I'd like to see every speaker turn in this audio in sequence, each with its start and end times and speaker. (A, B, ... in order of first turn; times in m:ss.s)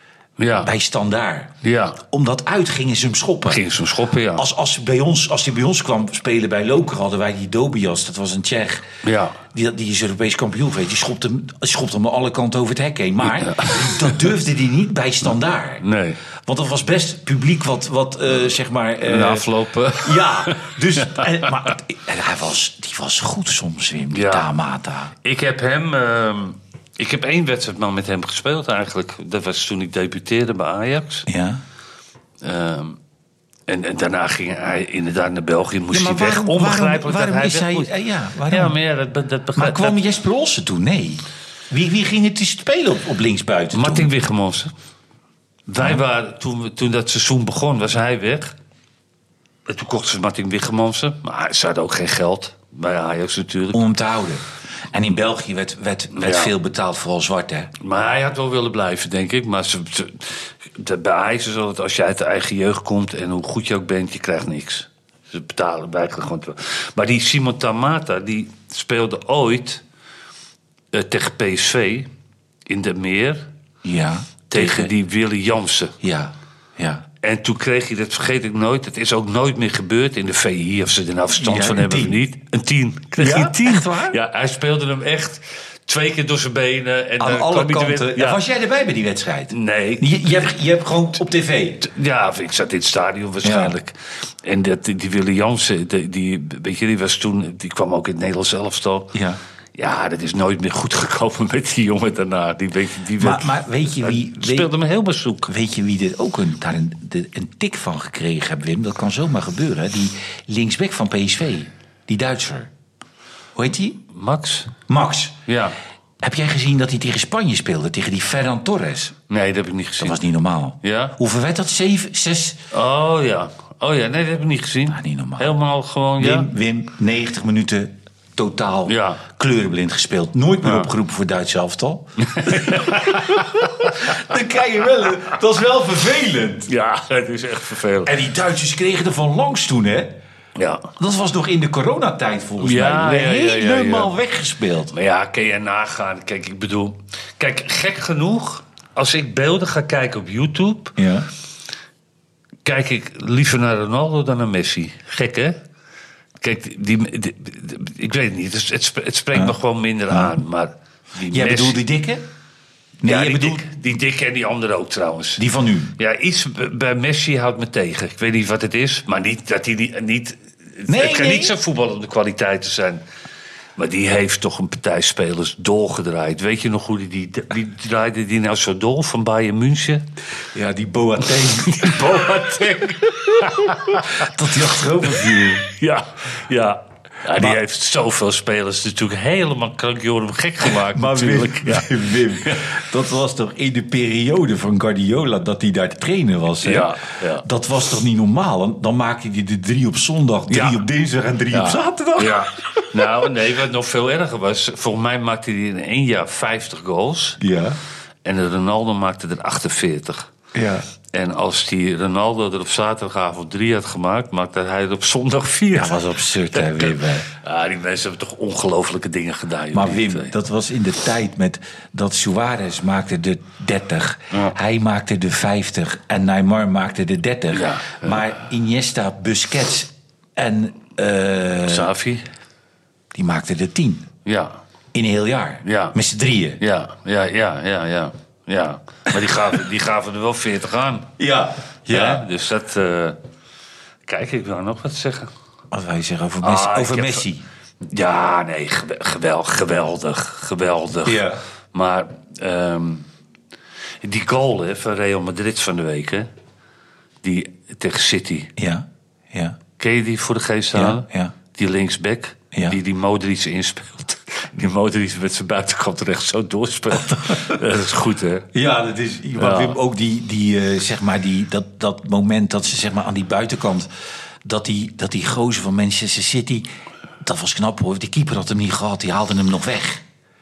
0:00.4-0:00.7 A
0:00.6-0:03.6 B
0:01.6-0:02.0 A
0:03.5-0:04.4 A
0:04.4-0:08.9 B
0:09.0-0:09.4 A
0:09.5-0:15.8 B
0:13.4-0:14.3 A
0:15.8-0:16.2 A
0:16.4-0:25.1 B
0:19.0-0:21.7 A
0:24.1-0:24.5 A
0:25.2-0:31.3 A
0:31.3-0:31.6 B
0:32.4-0:33.0 A
0:33.7-0:37.9 A
0:35.9-0:38.8 B
0:38.5-0:40.0 A
0:39.6-0:44.1 B
0:43.7-0:44.7 A
0:45.7-0:48.5 A
0:49.7-0:53.8 A
0:53.7-0:57.7 B
0:56.1-0:56.5 A
0:57.8-1:09.8 A
1:10.9-1:12.1 A
1:12.7-1:13.5 A
1:13.8-1:14.9 B
1:14.5-1:16.0 A
1:16.0-1:17.0 B
1:17.2-1:28.4 A
1:21.4-1:22.2 B
1:23.2-1:24.2 B
1:27.2-1:31.8 B
1:29.5-1:30.5 A
1:31.8-1:39.1 A
1:33.4-1:33.8 B
1:39.1-1:39.4 B
1:39.7-1:45.5 A
1:43.2-1:44.7 B
1:45.4-1:52.7 B
1:53.5-1:54.0 B
1:54.1-1:54.7 A
1:54.9-1:55.4 B
1:55.5-1:55.8 A
1:56.2-1:59.1 B
1:59.3-2:00.2 A
2:00.0-2:02.6 B
2:00.8-2:01.2 A
2:02.7-2:06.5 A
2:04.9-2:05.5 B
2:06.2-2:16.7 B
2:08.9-2:09.2 A
2:10.6-2:10.9 A
2:12.2-2:14.3 A
2:16.7-2:18.1 A
2:18.0-2:20.2 B
2:20.6-2:20.9 A
2:21.0-2:24.9 B
2:22.6-2:24.1 A
2:24.9-2:31.0 A
2:31.0-2:31.3 B
2:32.6-2:35.6 A
2:36.4-2:41.8 A
2:40.1-2:40.4 B
2:41.3-2:42.2 B
2:43.0-2:43.7 B
2:43.0-2:45.4 A
2:45.4-2:45.9 B
2:46.0-2:53.0 A
2:50.9-2:51.5 B
2:53.8-3:00.0 A
3:00.5-3:02.5 B
3:01.4-3:04.3 A
3:03.2-3:05.6 B
3:05.0-3:12.7 A
3:10.6-3:23.0 B
3:16.6-3:17.4 A
3:20.5-3:20.8 A
3:21.5-3:27.4 A
3:27.4-3:27.8 B
3:28.2-3:30.3 A
3:30.5-3:30.8 B
3:31.1-3:40.3 A
3:35.7-3:37.3 B
3:39.7-3:51.9 B
3:47.5-3:48.2 A
3:51.6-3:52.2 A
3:53.1-3:54.1 B
3:54.2-3:54.6 A
3:54.9-3:56.6 B
3:55.6-3:56.0 A
3:56.6-4:01.1 A
4:01.2-4:02.2 B
4:01.9-4:03.2 A
4:04.1-4:05.3 A
4:05.7-4:07.4 B
4:06.4-4:07.2 A
4:07.8-4:13.1 A
4:11.0-4:11.4 B
4:14.0-4:16.3 A
4:17.2-4:18.5 A
4:18.6-4:19.6 B
4:19.8-4:28.5 A
4:20.7-4:21.3 B
4:22.5-4:22.8 B
4:28.5-4:33.9 B
4:29.4-4:29.8 A
4:34.4-4:36.7 B
4:37.2-4:40.0 B